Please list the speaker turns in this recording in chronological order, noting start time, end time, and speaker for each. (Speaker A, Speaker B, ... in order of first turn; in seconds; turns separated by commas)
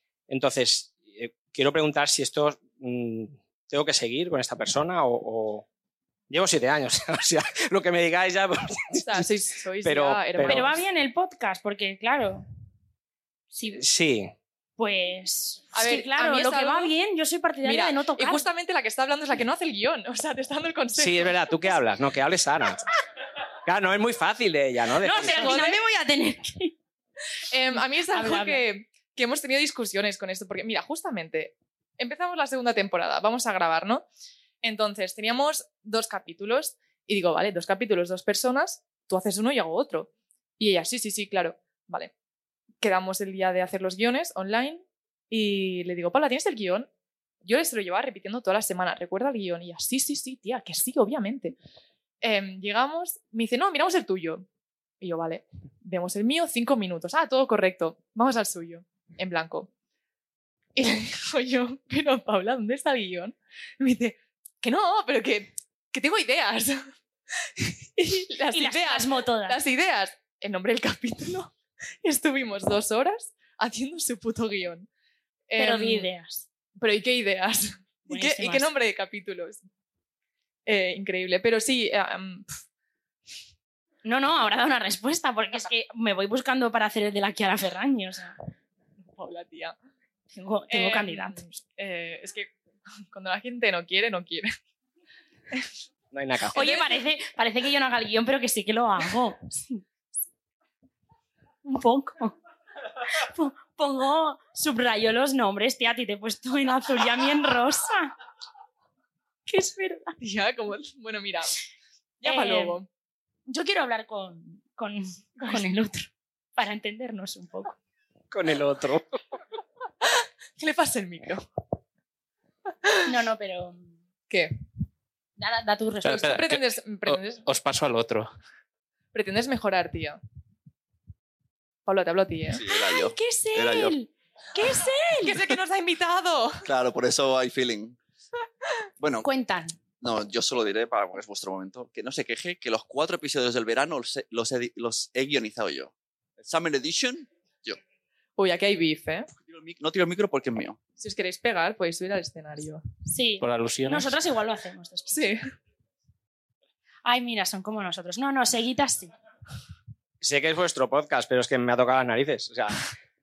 Speaker A: 0.3-5.6, Speaker A: 6.3-9.2, Speaker B: 8.9-10.8, Speaker A: 9.8-10.8, Speaker C: 10.4-12.4, Speaker C: 13.5-13.8, Speaker A: 13.8-14.3, Speaker C: 14.8-18.5, Speaker B: 15.7-16.9, Speaker B: 17.6-21.3, Speaker A: 21.0-22.8, Speaker A: 23.6-25.6, Speaker C: 25.0-26.8, Speaker B: 25.2-25.8, Speaker B: 27.5-34.0, Speaker C: 28.1-28.6, Speaker B: 34.6-42.1, Speaker B: 42.8-46.9, Speaker B: 47.4-51.5, Speaker B: 52.2-54.4, Speaker B: 55.0-59.7, Speaker B: 60.8-66.8, Speaker B: 67.6-71.5, Speaker C: 68.5-69.6, Speaker B: 72.0-74.9, Speaker B: 75.5-76.1, Speaker C: 75.6-76.4, Speaker B: 76.8-79.6, Speaker C: 78.1-78.7, Speaker B: 80.7-82.6, Speaker C: 84.0-88.3, Speaker B: 89.2-89.8, Speaker C: 90.3-91.4, Speaker B: 90.7-92.5, Speaker B: 93.1-94.5, Speaker A: 96.1-96.7, Speaker C: 96.5-99.8, Speaker C: 101.6-102.3, Speaker C: 103.1-108.1, Speaker C: 109.5-110.2, Speaker B: 110.2-111.5, Speaker B: 112.2-112.9, Speaker C: 112.2-112.8, Speaker C: 113.5-117.8, Speaker B: 115.4-115.7, Speaker A: 118.3-119.0, Speaker B: 120.6-121.4, Speaker C: 123.0-123.9, Speaker C: 125.4-126.4, Speaker D: 126.0-128.3, Speaker B: 126.2-127.4, Speaker B: 129.1-130.2, Speaker B: 131.8-132.6, Speaker E: 132.5-133.9, Speaker C: 132.7-135.4, Speaker B: 135.2-136.6, Speaker E: 136.6-138.0, Speaker E: 139.0-139.3, Speaker C: 139.2-139.8, Speaker E: 140.0-147.8, Speaker B: 148.4-149.3, Speaker E: 149.4-150.8, Speaker B: 151.0-152.8, Speaker C: 153.1-155.3, Speaker D: 153.4-154.1, Speaker B: 155.1-155.4, Speaker C: 157.0-159.1, Speaker A: 160.2-162.8